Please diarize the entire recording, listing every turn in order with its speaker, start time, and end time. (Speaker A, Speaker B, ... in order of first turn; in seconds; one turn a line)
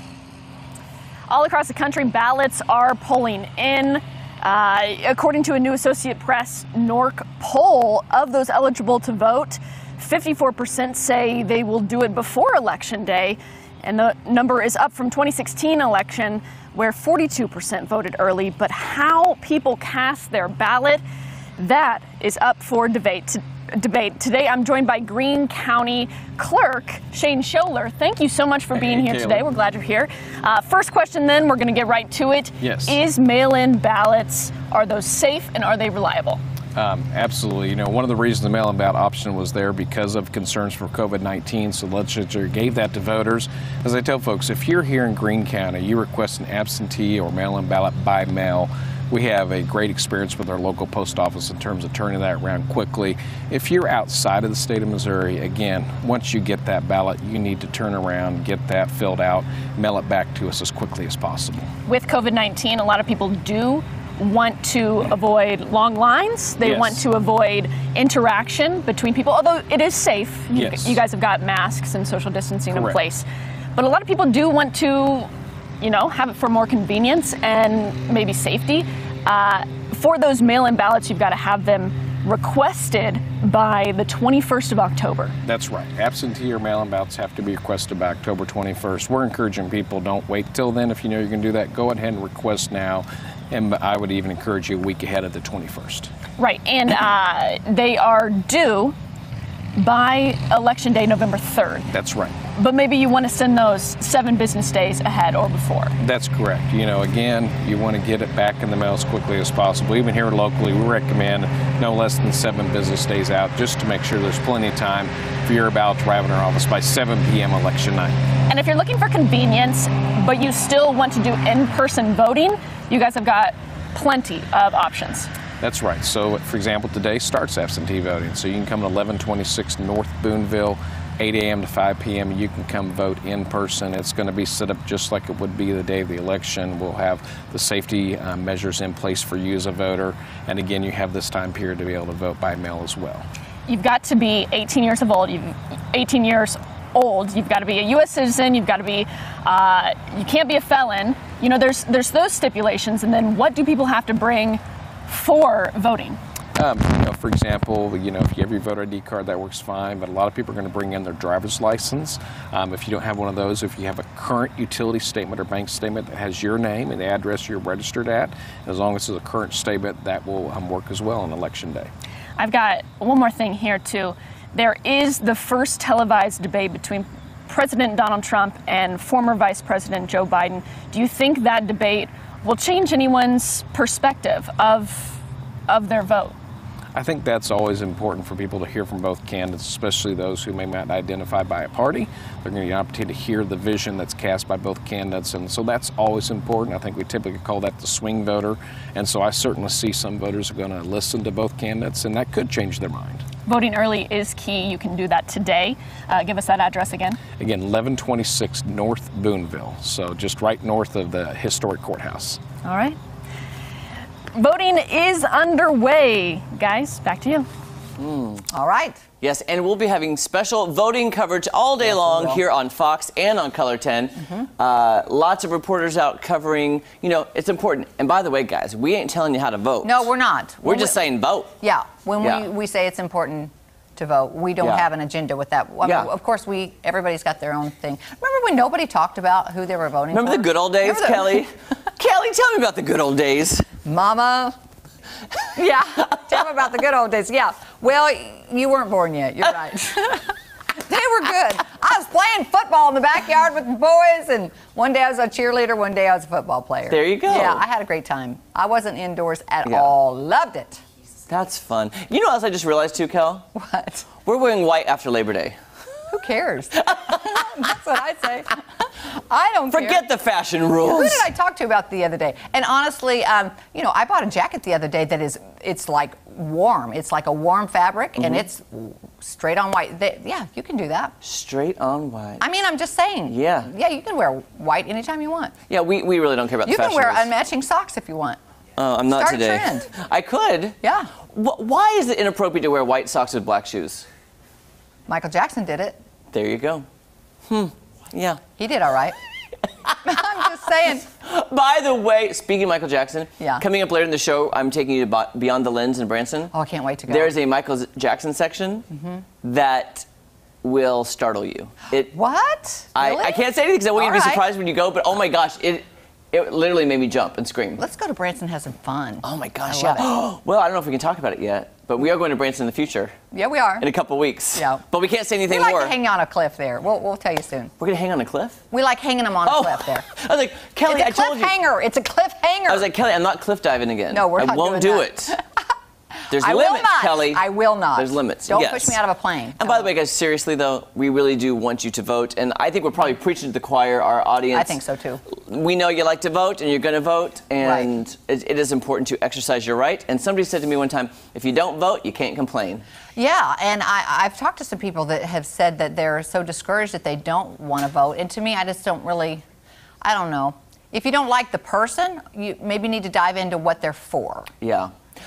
Speaker A: 1.3-21.0
Speaker A: 21.6-36.4
Speaker B: 28.8-29.4
Speaker B: 32.6-33.0
Speaker B: 36.7-61.7
Speaker A: 61.9-75.3
Speaker B: 66.6-67.0
Speaker B: 70.5-71.0
Speaker B: 72.7-73.0
Speaker A: 75.8-85.3
Speaker B: 85.4-96.1
Speaker A: 96.4-98.9
Speaker A: 99.7-101.9
Speaker B: 101.9-102.4
Speaker A: 102.5-106.0
Speaker B: 106.0-118.2
Speaker A: 118.5-125.3
Speaker B: 125.6-143.2
Speaker A: 143.7-156.2
Speaker B: 156.6-171.9
Speaker A: 172.4-186.3
Speaker B: 186.9-203.2
Speaker A: 203.4-207.2
Speaker B: 207.4-212.4
Speaker C: 212.6-213.0
Speaker A: 214.3-217.5
Speaker D: 218.0-218.4
Speaker C: 218.5-219.0
Speaker D: 219.2-230.1
Speaker C: 221.8-222.4
Speaker C: 224.2-224.5
Speaker C: 229.8-231.0
Speaker D: 230.6-231.5
Speaker C: 231.6-241.4
Speaker D: 232.2-232.4
Speaker D: 234.6-234.9
Speaker D: 235.8-236.1
Speaker D: 240.1-243.7
Speaker C: 243.8-244.6
Speaker C: 245.5-260.8
Speaker D: 256.9-257.6
Speaker D: 259.6-259.9
Speaker D: 261.3-263.4
Speaker C: 263.5-264.1
Speaker D: 264.2-265.6
Speaker C: 266.1-270.1
Speaker D: 269.7-271.3
Speaker C: 270.8-281.1
Speaker D: 281.2-282.4
Speaker C: 282.4-285.5
Speaker D: 283.3-283.7
Speaker D: 285.7-287.3
Speaker C: 286.6-288.4
Speaker D: 288.8-290.8
Speaker C: 289.1-289.9
Speaker C: 290.8-291.1
Speaker D: 291.3-294.1
Speaker C: 295.1-296.0
Speaker D: 296.3-296.9
Speaker D: 297.5-298.4
Speaker C: 298.6-299.1
Speaker C: 300.0-301.1
Speaker D: 301.2-306.5
Speaker C: 303.4-303.6
Speaker C: 306.5-307.3
Speaker D: 307.1-308.9
Speaker C: 308.9-309.2
Speaker D: 309.4-310.1
Speaker D: 310.6-312.1
Speaker C: 312.1-314.4
Speaker D: 312.9-317.8
Speaker C: 317.8-320.1
Speaker D: 319.2-323.1
Speaker C: 323.3-323.9
Speaker D: 323.8-325.9
Speaker C: 324.6-324.8
Speaker C: 325.5-327.7
Speaker D: 327.8-328.6
Speaker C: 328.7-330.1
Speaker D: 329.4-331.6
Speaker C: 330.9-332.9
Speaker D: 332.7-335.3
Speaker C: 334.1-335.6
Speaker C: 336.2-339.9
Speaker D: 336.3-339.0
Speaker D: 339.6-344.8
Speaker C: 344.5-345.2
Speaker D: 345.3-352.8
Speaker C: 347.6-347.9
Speaker C: 353.1-359.4
Speaker C: 360.0-364.5
Speaker D: 364.6-364.9